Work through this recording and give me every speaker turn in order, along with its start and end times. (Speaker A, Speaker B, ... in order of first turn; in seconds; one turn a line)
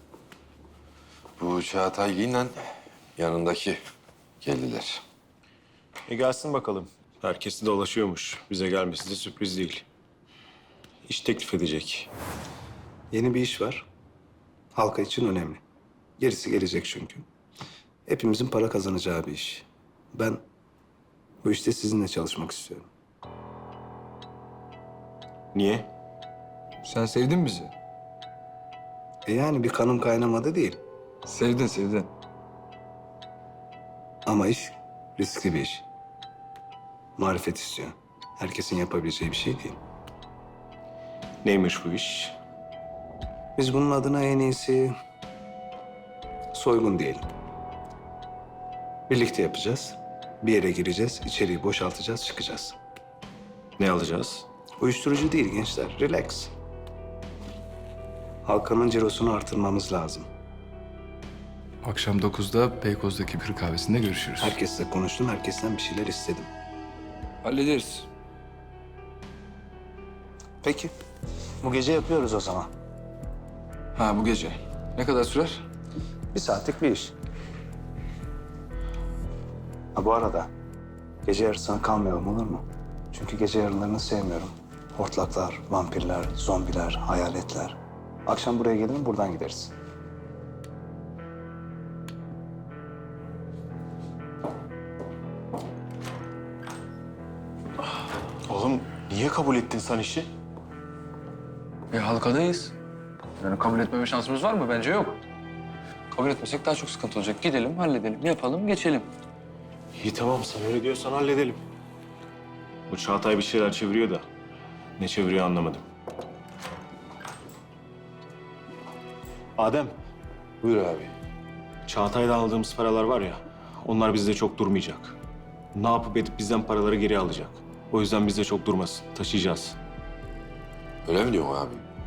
Speaker A: 1.4-3.8
Speaker A: 4.4-5.0
Speaker B: 6.1-9.8
Speaker B: 11.1-12.1
Speaker C: 13.1-13.9
Speaker C: 14.8-15.6
Speaker C: 16.2-17.3
Speaker C: 18.1-20.4
Speaker C: 21.4-22.9
Speaker B: 25.5-25.9
Speaker D: 26.8-27.7
Speaker C: 29.3-30.8
Speaker D: 31.3-32.1
Speaker C: 34.3-35.9
Speaker C: 37.2-39.8
Speaker B: 41.4-42.4
Speaker C: 43.6-45.0
Speaker C: 46.5-47.3
Speaker C: 49.1-52.8
Speaker B: 53.8-54.5
Speaker C: 54.8-56.5
Speaker C: 58.5-60.3
Speaker D: 61.8-64.6
Speaker C: 64.4-66.5
Speaker D: 67.4-68.1
Speaker C: 70.6-70.9
Speaker C: 71.6-72.7
Speaker D: 74.0-75.6
Speaker C: 76.3-77.2
Speaker C: 79.9-80.5
Speaker C: 81.2-89.7
Speaker B: 98.5-100.3
Speaker E: 101.9-102.8
Speaker E: 103.4-105.2
Speaker E: 106.1-109.1
Speaker B: 109.9-111.6
Speaker B: 112.9-114.2
Speaker B: 115.0-115.9
Speaker B: 119.6-120.0
Speaker A: 120.6-121.1
Speaker B: 121.9-125.2
Speaker B: 125.7-129.8
Speaker A: 131.1-131.8